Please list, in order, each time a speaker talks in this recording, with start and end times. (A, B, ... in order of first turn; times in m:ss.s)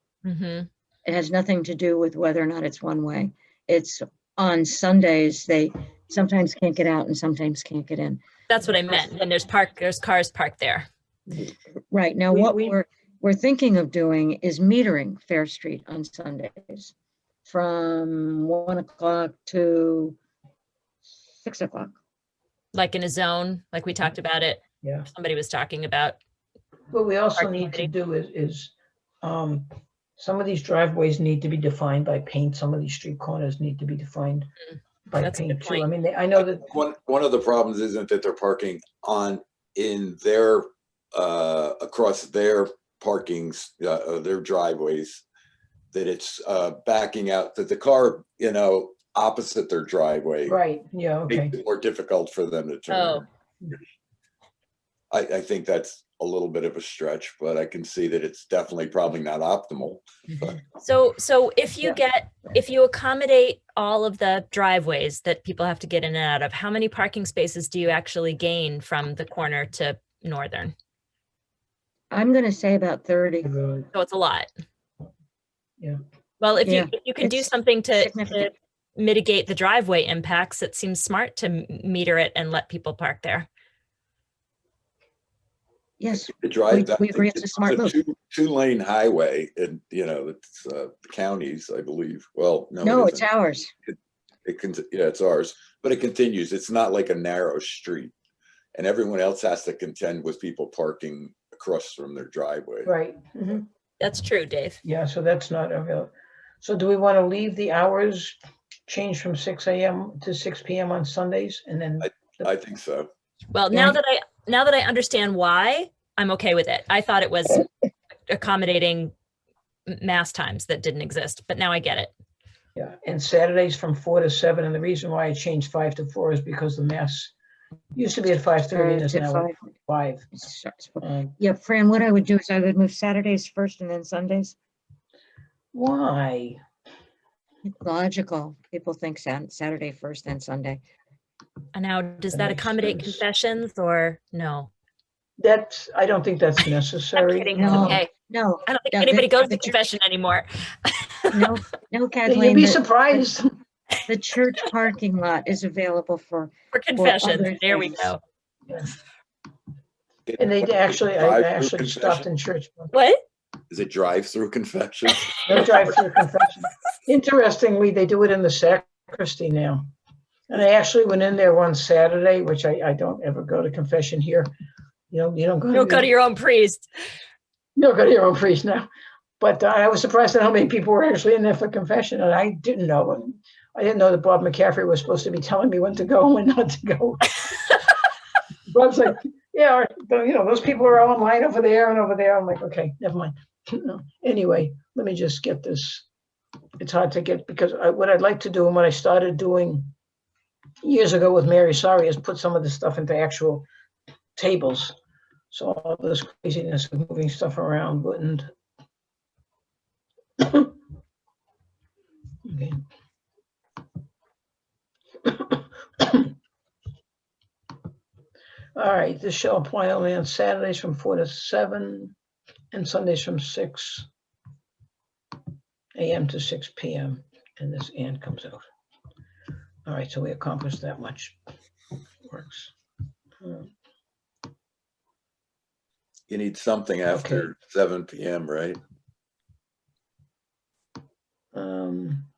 0:00.2-0:00.7 A
0:01.1-0:08.2 B
0:08.5-0:10.9 A
0:11.9-0:16.9 B
0:12.3-0:12.8 C
0:17.5-0:20.2 B
0:21.4-0:22.0 B
0:22.7-0:26.2 A
0:24.8-0:25.1 C
0:26.9-0:34.5 C
0:27.4-0:27.9 A
0:35.1-0:36.7 C
0:35.2-0:35.9 A
0:36.4-0:45.2 D
0:45.9-0:50.6 D
0:50.5-0:51.5 C
0:51.3-0:53.3 D
0:52.9-0:53.2 A
0:55.1-1:00.5 D
1:00.8-1:10.7 A
1:12.1-1:13.6 B
1:13.6-1:13.8 C
1:13.9-1:14.5 A
1:16.4-1:23.5 A
1:16.6-1:18.5 B
1:26.0-1:28.0 B
1:26.3-1:33.3 D
1:32.8-1:33.7 B
1:33.9-1:38.1 D
1:38.8-1:42.9 D
1:42.8-1:43.7 C
1:44.0-1:44.8 A
1:44.8-1:48.4 C
1:48.9-1:52.5 C
1:52.0-1:53.1 D
1:53.5-1:57.7 A
1:58.3-1:59.1 A
1:59.9-2:02.1 A
2:02.8-2:07.3 C
2:08.0-2:10.4 C
2:08.7-2:09.6 B
2:10.3-2:14.5 B
2:11.0-2:11.3 C
2:15.7-2:16.6 C
2:17.7-2:20.8 B
2:21.7-2:24.7 A
2:22.3-2:23.2 C
2:25.4-2:28.0 C
2:27.1-2:28.1 A
2:27.6-2:29.8 B
2:28.7-2:31.6 A
2:31.3-2:33.2 B
2:32.2-2:33.6 C
2:34.0-2:38.1 B
2:36.7-2:38.2 A
2:40.3-2:42.2 D
2:40.4-2:42.9 C
2:42.9-2:43.2 A
2:43.7-2:46.0 D
2:45.4-2:49.9 C
2:50.5-2:54.5 C
2:55.1-2:56.1 C
2:55.7-2:56.8 A
2:57.8-2:58.9 C
2:59.4-3:07.5 C
3:08.7-3:16.1 C
3:16.8-3:19.9 C
3:20.8-3:23.7 C
3:24.4-3:24.9 C
3:25.5-3:28.5 C
3:30.4-3:30.7 C
3:32.4-3:32.8 C
3:35.2-3:36.3 C
3:38.7-3:42.1 C
3:42.7-3:44.1 C
3:45.9-3:48.6 C
3:49.8-3:51.4 C
3:52.3-3:52.7 C
3:53.4-3:53.7 C
3:56.3-3:58.8 D
3:57.1-3:57.5 C
4:01.5-4:02.3 C